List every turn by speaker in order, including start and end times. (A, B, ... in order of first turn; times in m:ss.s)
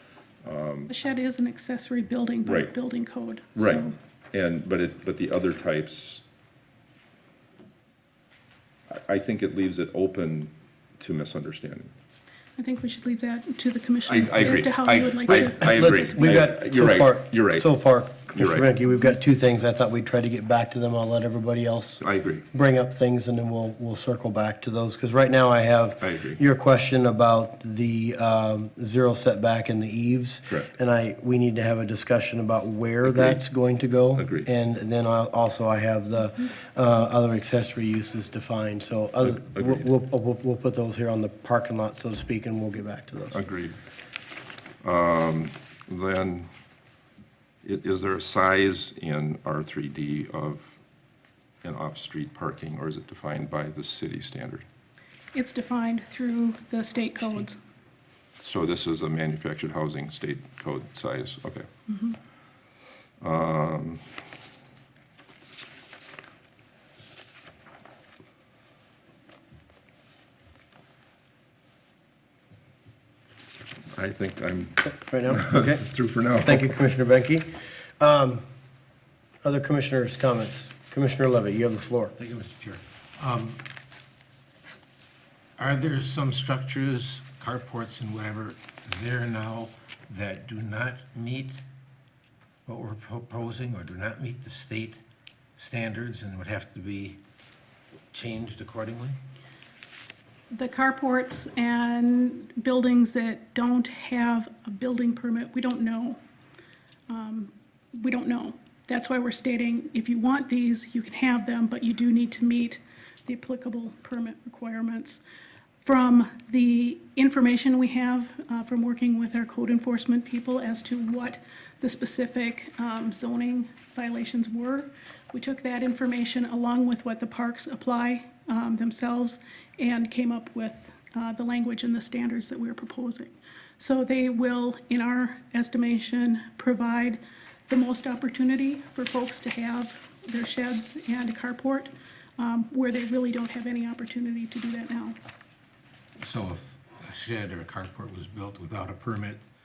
0:00.4-0:00.9 A
0:00.9-0:03.9 B
0:02.4-0:02.7 A
0:03.6-0:06.2 A
0:08.9-0:11.9 A
0:12.6-0:16.2 B
0:14.0-0:17.7 A
0:15.6-0:43.4 C
0:18.3-0:18.7 A
0:22.0-0:22.4 A
0:26.0-0:26.4 A
0:33.0-0:33.4 A
0:34.1-0:34.5 A
0:39.2-0:39.9 A
0:43.3-0:43.8 A
0:44.8-0:46.5 A
0:47.6-0:50.8 A
0:51.6-0:54.6 A
0:55.3-0:57.6 B
0:58.4-1:01.6 A
1:01.9-1:02.2 B
1:03.2-1:04.0 A
1:13.9-1:16.8 A
1:14.9-1:15.8 C
1:16.4-1:17.5 C
1:18.0-1:18.4 C
1:19.4-1:22.1 C
1:22.2-1:23.6 D
1:25.6-1:31.6 D
1:32.6-1:35.0 D
1:35.6-1:37.2 D
1:38.1-1:39.2 D
1:40.5-1:46.2 B
1:47.1-1:55.2 B
1:55.8-2:25.2 B
2:26.2-2:29.4 D